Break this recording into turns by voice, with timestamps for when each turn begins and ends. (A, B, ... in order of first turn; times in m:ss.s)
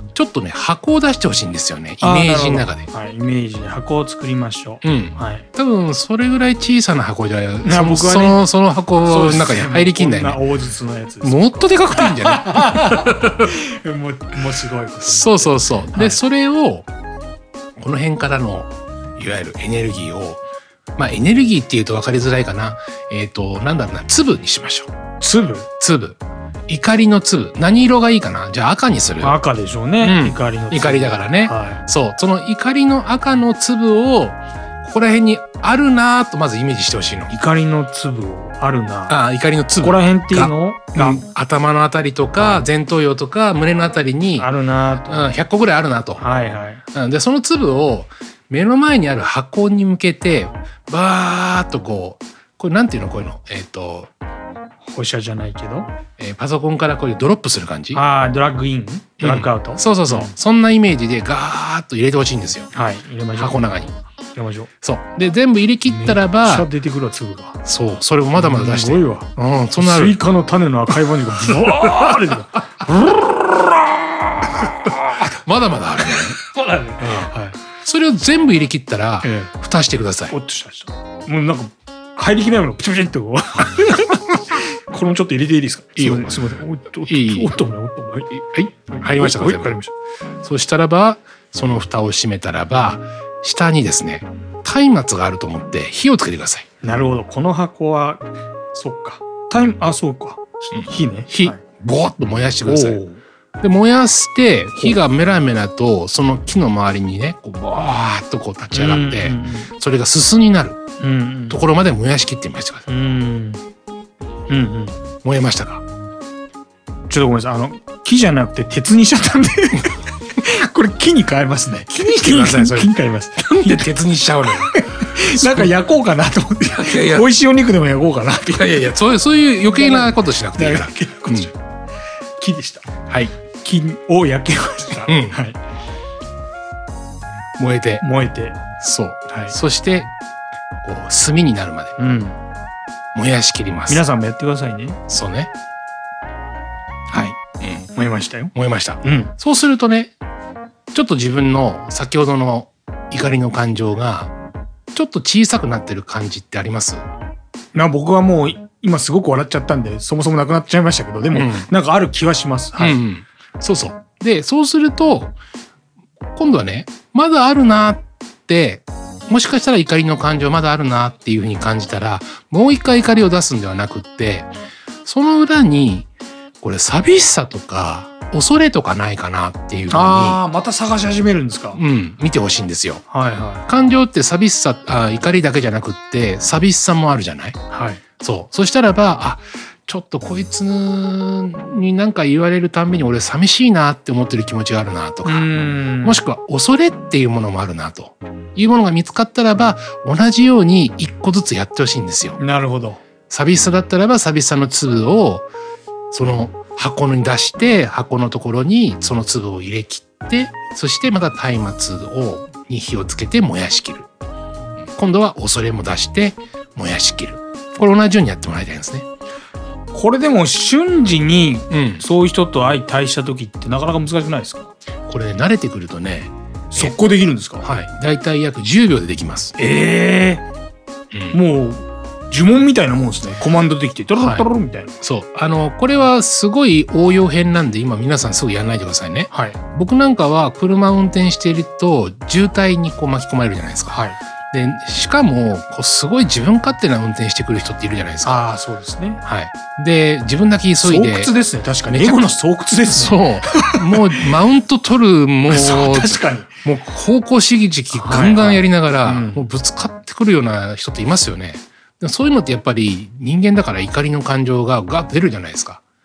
0:00.1-0:02.9 A
0:02.0-0:05.5 B
0:04.8-0:10.4 A
0:07.6-0:08.4 B
0:09.0-0:16.2 B
0:11.2-0:13.5 A
0:15.0-0:16.9 A
0:17.8-0:20.4 A
0:21.0-0:24.9 A
0:25.2-0:25.7 B
0:25.8-0:29.4 A
0:29.2-0:31.8 B
0:30.0-0:37.3 A
0:37.3-0:39.2 B
0:39.1-0:44.5 A
0:39.8-0:41.2 B
0:42.4-0:42.7 B
0:44.4-0:45.3 B
0:45.1-0:46.2 A
0:46.2-0:46.8 B
0:46.9-0:54.1 A
0:54.8-0:55.9 B
0:56.2-0:58.0 A
0:57.9-1:00.3 B
0:59.2-1:02.7 A
1:02.7-1:03.6 B
1:03.3-1:04.0 A
1:04.4-1:04.7 B
1:04.8-1:06.7 A
1:05.9-1:07.6 B
1:07.6-1:10.2 A
1:08.4-1:15.2 B
1:11.5-1:12.3 A
1:14.7-1:16.4 A
1:16.1-1:17.6 B
1:17.0-1:20.4 A
1:19.2-1:19.5 B
1:20.3-1:29.9 B
1:26.0-1:27.6 A
1:28.4-1:29.8 A
1:30.4-1:36.7 A
1:36.8-1:41.6 B
1:40.7-1:43.0 A
1:42.6-1:43.2 B
1:43.6-1:50.8 A
1:48.7-1:49.7 B
1:51.0-1:51.6 B
1:51.5-1:52.9 A
1:52.9-1:53.6 B
1:54.5-1:55.0 B
1:55.2-1:55.8 A
1:57.1-2:03.9 B
2:01.9-2:05.8 A
2:04.6-2:08.7 B
2:06.7-2:07.3 A
2:08.4-2:11.5 A
2:09.7-2:11.6 B
2:12.4-2:12.9 B
2:13.6-2:15.6 B
2:15.1-2:15.4 A
2:17.6-2:18.0 A
2:18.0-2:18.6 B
2:18.8-2:20.1 A
2:19.3-2:19.6 B
2:20.8-2:22.0 A
2:22.0-2:22.4 B
2:23.2-2:24.0 A
2:23.9-2:25.0 B
2:25.1-2:25.5 A
2:27.1-2:27.4 B
2:27.6-2:27.9 A
2:27.9-2:29.3 B
2:28.5-2:30.1 A
2:30.9-2:34.3 A
2:34.9-2:37.0 A
2:37.7-2:43.0 B
2:41.3-2:41.7 A
2:42.8-2:45.3 A
2:46.4-2:54.5 A
2:55.1-2:56.1 A
2:56.6-3:00.4 A
2:59.9-3:01.8 B
3:01.8-3:03.0 A
3:03.1-3:03.6 B
3:03.7-3:07.6 A
3:07.7-3:08.0 B
3:08.2-3:15.5 A
3:15.2-3:16.2 B
3:16.0-3:22.4 A
3:22.4-3:23.0 B
3:23.3-3:25.5 A
3:26.1-3:34.1 A
3:34.9-3:39.1 A
3:39.9-3:44.7 B
3:41.7-3:42.0 A
3:45.1-3:47.0 A
3:46.7-3:47.7 B
3:47.6-3:49.6 A
3:49.6-3:50.4 B
3:51.1-3:51.4 A
3:51.3-3:54.9 B
3:54.2-3:54.5 A
3:55.0-4:08.4 A
3:59.3-3:59.6 B
4:03.9-4:04.2 B
4:08.2-4:09.2 B
4:09.2-4:11.3 A
4:10.8-4:14.2 B
4:11.9-4:25.8 A
4:15.5-4:16.5 B
4:17.9-4:19.4 B